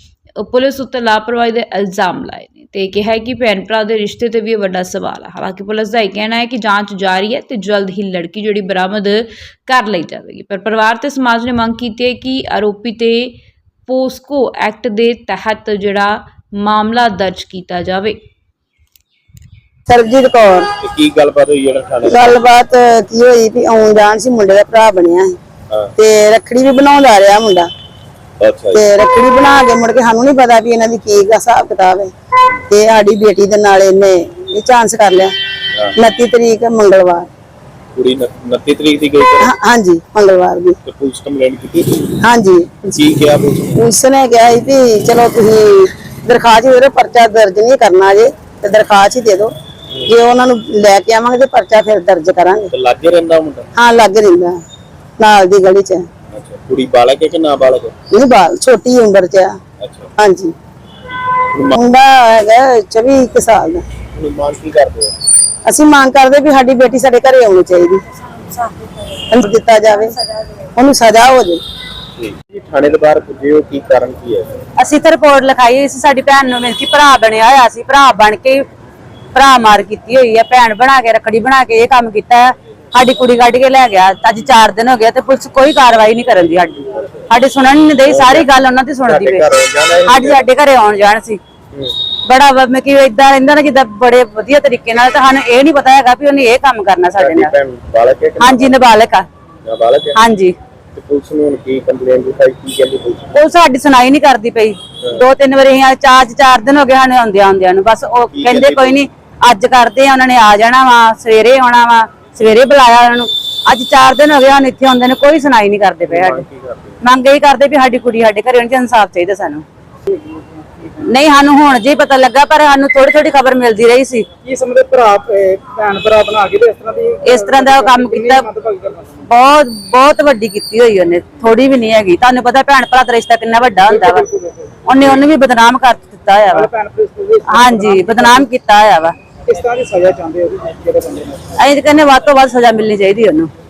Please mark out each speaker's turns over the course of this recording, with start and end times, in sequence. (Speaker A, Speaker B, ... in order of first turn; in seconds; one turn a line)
Speaker A: 0.4-18.2
Speaker B: 19.9-20.7
Speaker C: 20.8-22.4
Speaker B: 22.0-25.3
Speaker B: 25.9-27.7
Speaker C: 28.4-28.8
Speaker B: 28.7-32.1
Speaker B: 32.7-35.3
Speaker B: 36.0-37.2
Speaker C: 37.9-39.5
Speaker B: 39.4-40.8
Speaker C: 40.8-42.1
Speaker B: 42.2-43.0
Speaker C: 42.9-43.8
Speaker B: 43.7-49.5
Speaker B: 50.0-52.7
Speaker C: 52.7-53.7
Speaker B: 53.8-54.6
Speaker B: 55.2-56.0
Speaker C: 56.3-57.9
Speaker B: 58.1-59.5
Speaker C: 59.8-60.1
Speaker B: 60.2-60.5
Speaker C: 61.5-61.8
Speaker B: 61.7-63.8
Speaker C: 64.2-65.1
Speaker B: 65.7-68.0
Speaker B: 69.3-70.1
Speaker B: 70.8-71.6
Speaker C: 72.2-74.5
Speaker D: 74.8-78.6
Speaker D: 79.3-89.5
Speaker C: 88.0-88.5
Speaker C: 89.0-90.5
Speaker D: 90.0-91.4
Speaker D: 92.2-97.5
Speaker C: 97.2-98.8
Speaker D: 98.4-99.2
Speaker C: 99.6-100.2
Speaker D: 100.1-100.5
Speaker C: 100.9-103.4
Speaker D: 103.3-116.4
Speaker C: 108.3-109.0
Speaker C: 116.0-117.0
Speaker D: 117.0-119.6
Speaker D: 121.0-124.2
Speaker E: 124.4-129.2
Speaker D: 127.2-128.5
Speaker D: 129.2-134.3
Speaker E: 133.8-134.5
Speaker D: 134.8-136.7
Speaker E: 136.5-138.4
Speaker D: 137.5-139.1
Speaker E: 139.5-141.5
Speaker D: 141.6-143.5